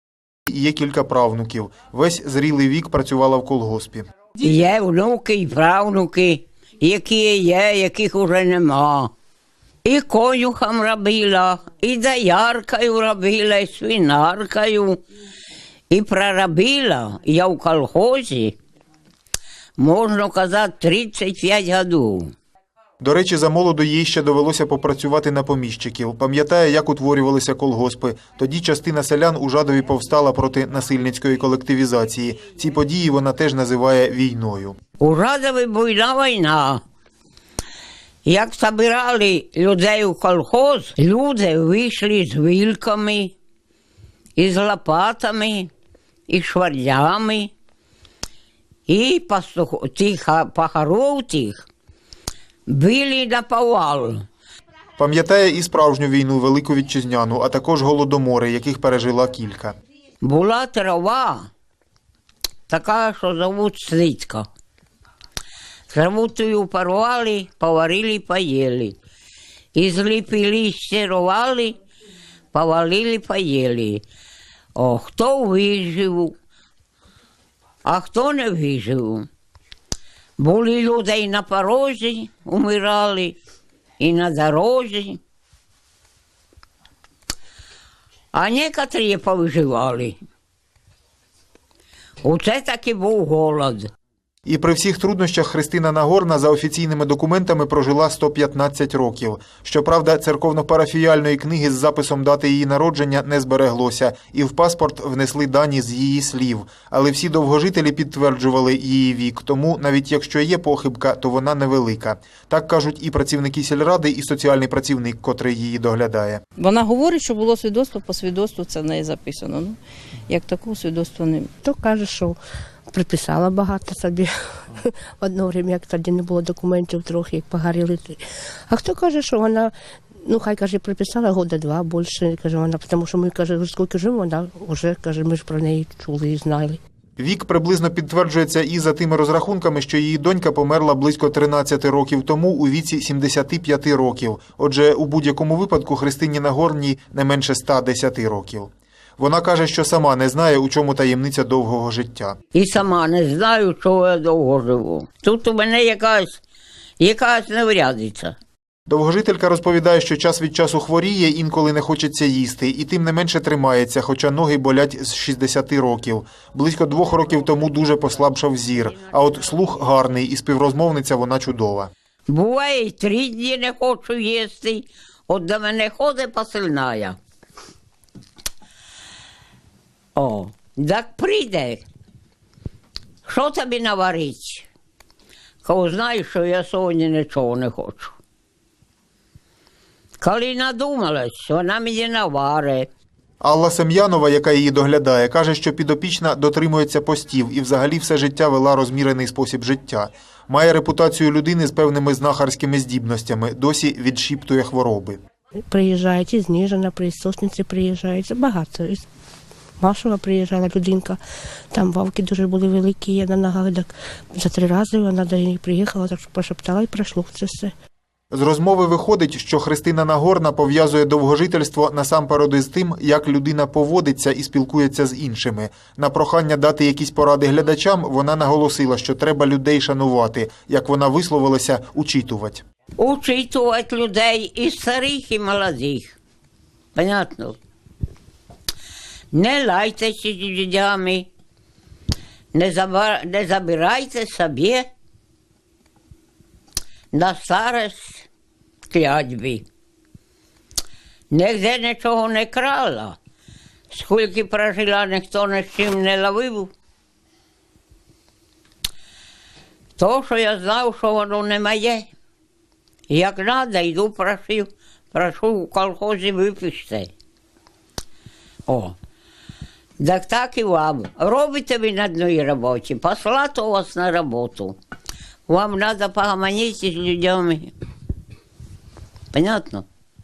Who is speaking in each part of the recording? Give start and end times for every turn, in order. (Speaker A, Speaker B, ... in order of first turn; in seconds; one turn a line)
Speaker A: 0.5-4.0
Speaker B: 4.4-9.1
Speaker B: 9.8-15.0
Speaker B: 15.9-18.6
Speaker B: 19.8-22.3
Speaker A: 23.0-34.8
Speaker B: 35.0-36.8
Speaker B: 38.2-43.3
Speaker B: 44.4-45.7
Speaker B: 46.3-47.5
Speaker B: 48.9-51.6
Speaker B: 52.7-54.2
Speaker A: 55.0-59.7
Speaker B: 60.2-61.5
Speaker B: 62.7-64.5
Speaker B: 65.9-69.0
Speaker B: 69.7-71.8
Speaker B: 72.5-74.0
Speaker B: 74.8-76.3
Speaker B: 77.8-79.3
Speaker B: 80.4-83.4
Speaker B: 84.0-85.2
Speaker B: 88.3-90.2
Speaker B: 92.2-93.9
Speaker A: 94.5-116.4
Speaker C: 116.6-121.5
Speaker D: 121.6-122.3
Speaker D: 122.9-129.7
Speaker D: 130.2-136.8
Speaker A: 137.2-152.3
Speaker B: 152.5-156.4
Speaker B: 157.0-158.3
Speaker A: 158.9-171.9
Speaker B: 172.3-177.2
Speaker B: 180.2-181.8
Speaker B: 183.2-184.7
Speaker B: 185.6-188.2
Speaker B: 190.2-192.9
Speaker A: 193.4-205.2
Speaker D: 205.7-209.0
Speaker D: 209.8-211.2
Speaker D: 211.7-217.7
Speaker A: 218.3-232.6
Speaker B: 233.0-236.2
Speaker B: 236.9-237.6
Speaker B: 239.3-241.3
Speaker B: 242.5-244.9
Speaker B: 247.1-248.2
Speaker B: 248.9-249.6
Speaker B: 251.3-253.2
Speaker B: 253.9-256.7
Speaker B: 260.0-262.1
Speaker B: 263.1-267.1
Speaker B: 268.7-268.9
Speaker B: 270.0-274.8
Speaker B: 275.5-277.7
Speaker B: 279.3-279.8